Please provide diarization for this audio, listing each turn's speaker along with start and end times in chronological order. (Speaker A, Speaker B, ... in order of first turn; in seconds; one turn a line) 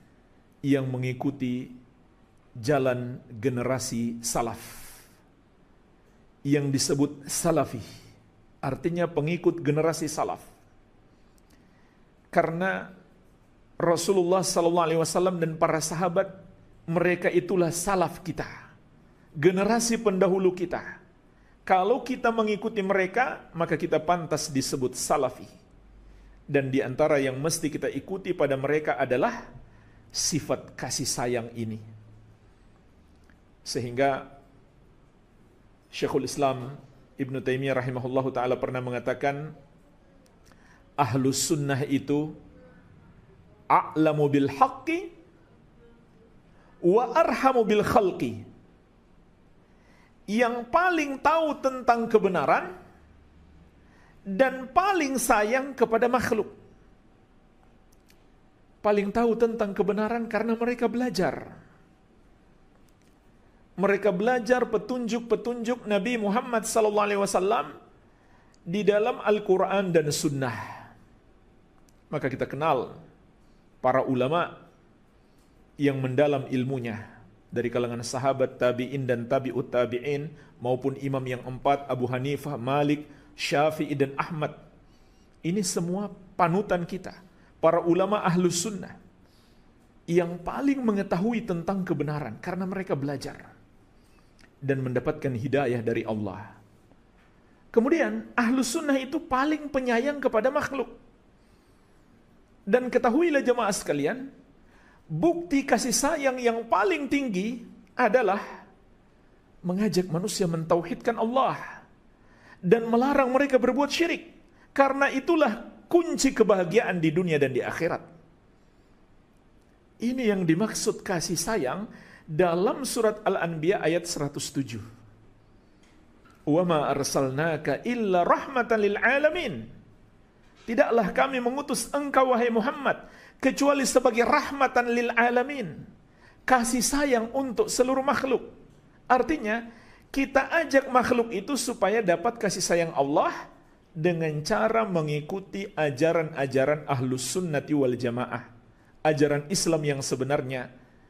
Speaker A: 0.6-1.7
Speaker A: 2.6-5.0
Speaker A: 6.5-7.8
Speaker A: 8.6-10.5
Speaker A: 12.3-12.9
Speaker A: 13.8-16.3
Speaker A: 16.9-18.5
Speaker A: 19.4-20.9
Speaker A: 21.6-25.5
Speaker A: 26.5-29.4
Speaker A: 30.1-31.8
Speaker A: 33.6-34.3
Speaker A: 35.9-39.5
Speaker A: 41.0-42.4
Speaker A: 43.7-45.1
Speaker A: 46.8-48.4
Speaker A: 50.3-52.7
Speaker A: 54.3-56.5
Speaker A: 58.8-61.5
Speaker A: 63.8-67.7
Speaker A: 68.7-70.9
Speaker A: 72.1-73.0
Speaker A: 73.8-74.5
Speaker A: 75.8-84.5
Speaker A: 85.4-89.0
Speaker A: 90.1-93.5
Speaker A: 94.6-96.5
Speaker A: 97.7-100.9
Speaker A: 102.7-104.3
Speaker A: 105.1-108.4
Speaker A: 109.6-111.8
Speaker A: 112.6-118.0
Speaker A: 120.0-124.8
Speaker A: 126.5-129.7
Speaker A: 130.7-135.9
Speaker A: 136.5-138.5
Speaker A: 139.1-139.6
Speaker A: 140.1-143.3
Speaker A: 144.0-148.5
Speaker A: 149.1-150.7